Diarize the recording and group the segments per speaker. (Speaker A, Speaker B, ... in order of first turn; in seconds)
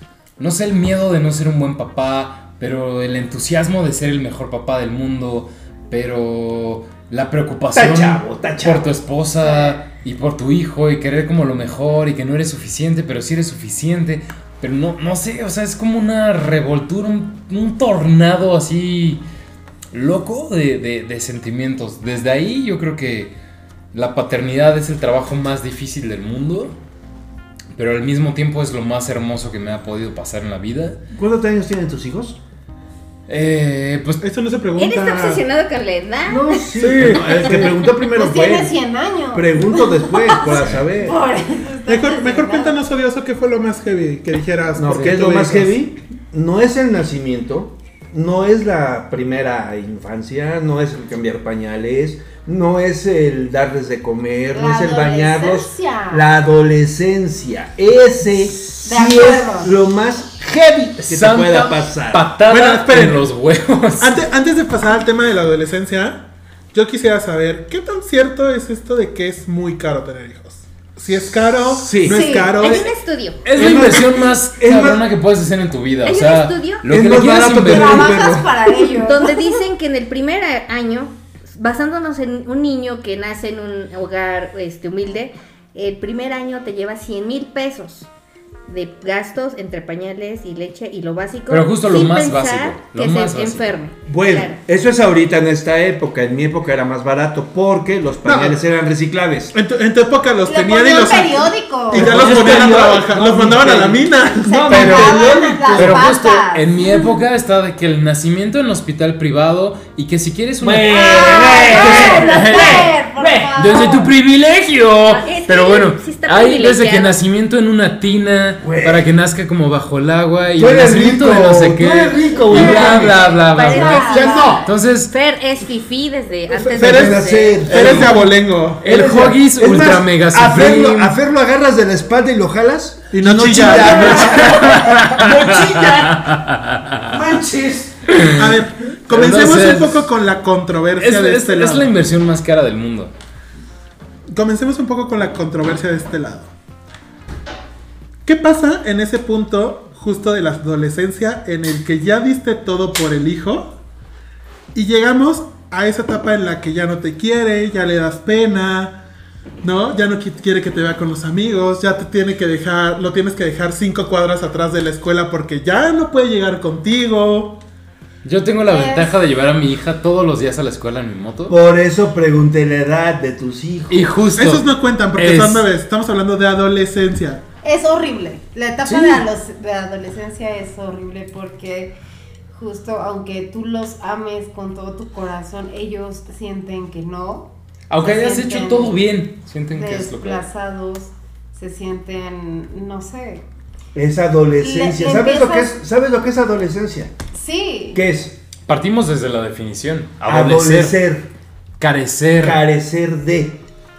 Speaker A: 0.4-19.2, 19.9-23.3, 23.9-26.8, 27.8-31.0, 33.3-34.2, 36.8-37.2, 40.4-40.9, 61.1-64.2, 73.5-78.2, 91.5-93.7, 102.3-102.6, 105.8-113.0, 113.6-125.1, 128.8-131.2, 134.3-137.0, 138.1-140.1, 141.0-143.1, 168.2-171.6, 173.9-175.7, 187.9-190.4, 198.7-201.0, 201.8-202.6
Speaker B: 7.7-8.9, 31.1-32.4, 36.3-38.8, 39.3-41.2, 44.8-62.3, 71.6-72.3, 73.5-75.0, 76.9-78.5, 94.1-99.5, 101.9-106.0, 110.6-114.1, 118.6-119.1, 120.6-123.3, 124.1-124.7, 126.5-128.3, 128.8-136.4, 137.1-138.1, 171.5-174.1, 178.8-179.2, 193.9-197.1, 197.9-198.4, 200.2-201.3, 202.4-203.6
Speaker C: 34.2-35.4, 36.8-37.7, 41.9-45.8, 62.5-63.2, 64.0-72.9, 98.2-98.6, 99.5-105.5, 126.8-128.8, 133.1-134.7, 138.3-141.9, 144.3-146.5, 148.2-153.7, 154.7-159.0, 159.6-167.6, 174.4-177.4
Speaker D: 34.8-36.6, 72.5-73.4, 76.0-76.9, 79.0-88.1, 88.7-94.6, 115.1-117.2, 122.5-127.9
Speaker E: 38.0-42.8, 54.5-56.2, 58.8-59.7, 72.0-72.7, 77.6-79.5, 100.5-102.3, 104.5-107.0, 110.9-114.1, 122.4-124.6, 168.7-169.1, 177.6-181.9, 182.5-189.1, 189.7-193.5, 194.6-195.7, 197.3-198.0